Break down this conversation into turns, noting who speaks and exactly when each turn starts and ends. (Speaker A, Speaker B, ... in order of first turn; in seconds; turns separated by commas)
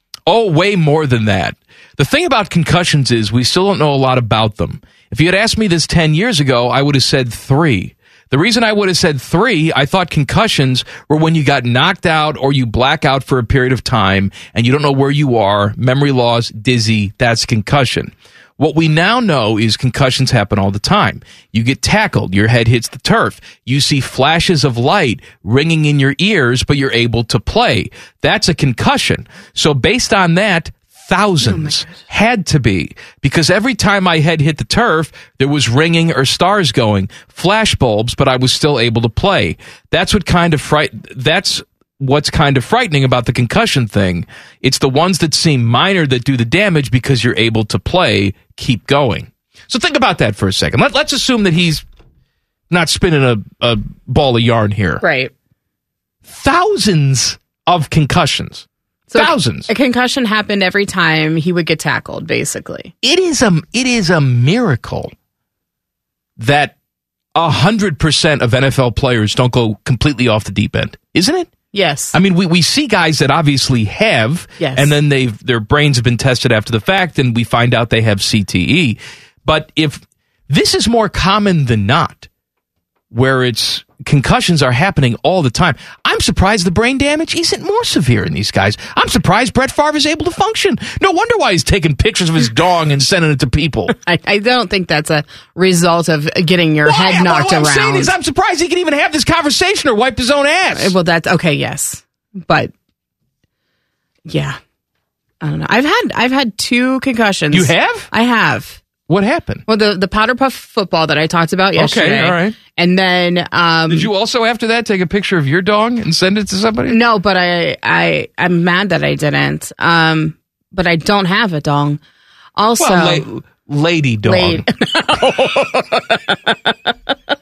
Speaker A: 0.3-51.8, Speaker B: 31.4-31.9, Speaker A: 52.7-55.0, Speaker B: 55.0-55.3, Speaker A: 56.2-59.7, Speaker B: 59.1-62.9, Speaker A: 63.0-65.1, Speaker A: 66.4-66.7, Speaker A: 67.3-71.5, Speaker B: 71.7-72.2, Speaker A: 72.1-82.3, Speaker B: 74.6-74.9, Speaker A: 83.1-94.0, Speaker B: 94.0-98.1, Speaker A: 96.8-101.0, Speaker B: 100.7-102.7, Speaker B: 104.3-104.6, Speaker B: 105.4-108.8, Speaker A: 107.5-108.1, Speaker A: 109.1-109.7, Speaker B: 109.7-114.1, Speaker A: 111.8-112.6, Speaker A: 113.9-117.0, Speaker B: 116.9-122.0, Speaker B: 122.6-123.2, Speaker A: 122.8-124.7, Speaker B: 124.2-126.7